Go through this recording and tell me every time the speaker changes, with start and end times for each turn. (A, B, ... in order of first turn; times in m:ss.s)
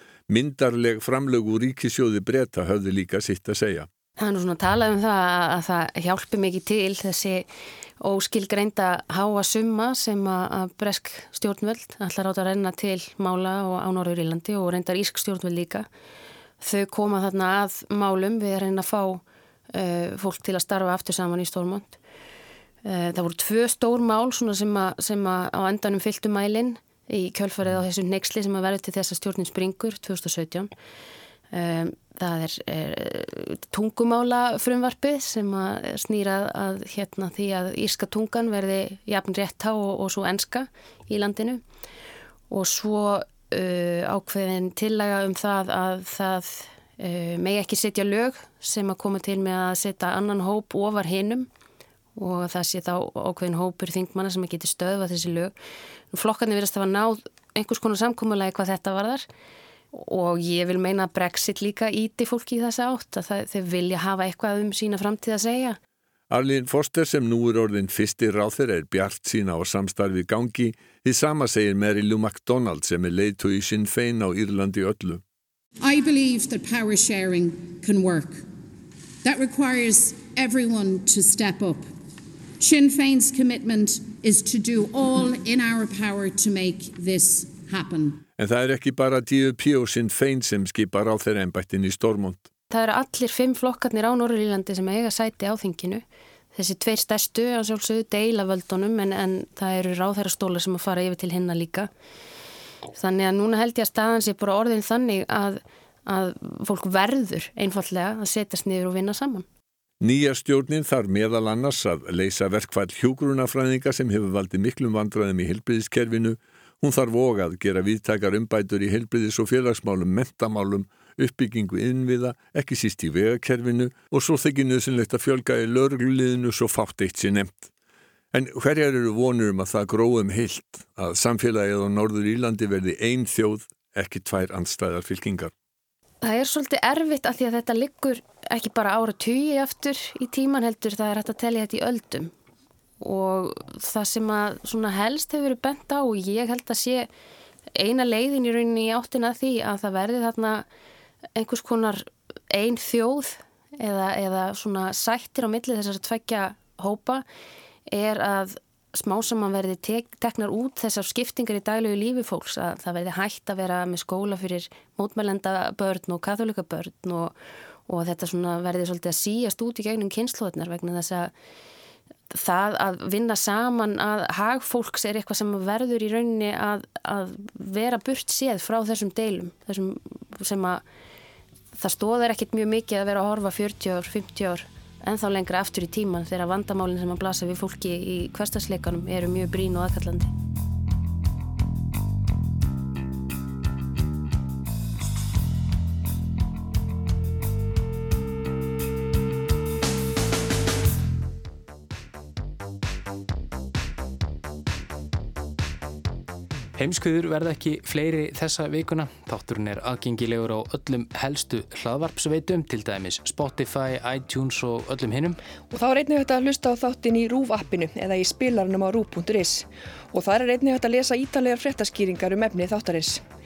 0:00.3-0:03.9 A
0:04.2-0:07.5 B
0:08.0-0:15.9 B
0:16.6-0:19.2 B
0:19.7-0:22.0 B
0:22.8-0:30.7 B
0:31.5-0:41.6 B
0:42.5-0:51.5 B
0:52.2-0:55.5 B
0:56.1-0:59.2 B
0:59.9-1:05.8 B
1:06.3-1:15.2 A
1:15.8-1:18.4 C
1:19.2-1:21.8 C
1:22.6-1:28.2 C
1:28.4-1:32.5 A
1:32.7-1:36.0 B
1:36.5-1:41.9 B
1:42.9-1:49.4 B
1:50.0-2:07.7 A
2:08.3-2:15.5 A
2:16.2-2:22.3 B
2:23.0-2:27.1 B
2:27.8-2:30.6 B
2:31.4-2:37.2 B
2:37.9-2:47.3 B
2:47.9-2:51.3 B
2:52.3-3:00.8 B
3:01.8-3:10.3 B
3:26.8-3:35.4 D
3:35.7-3:43.2 E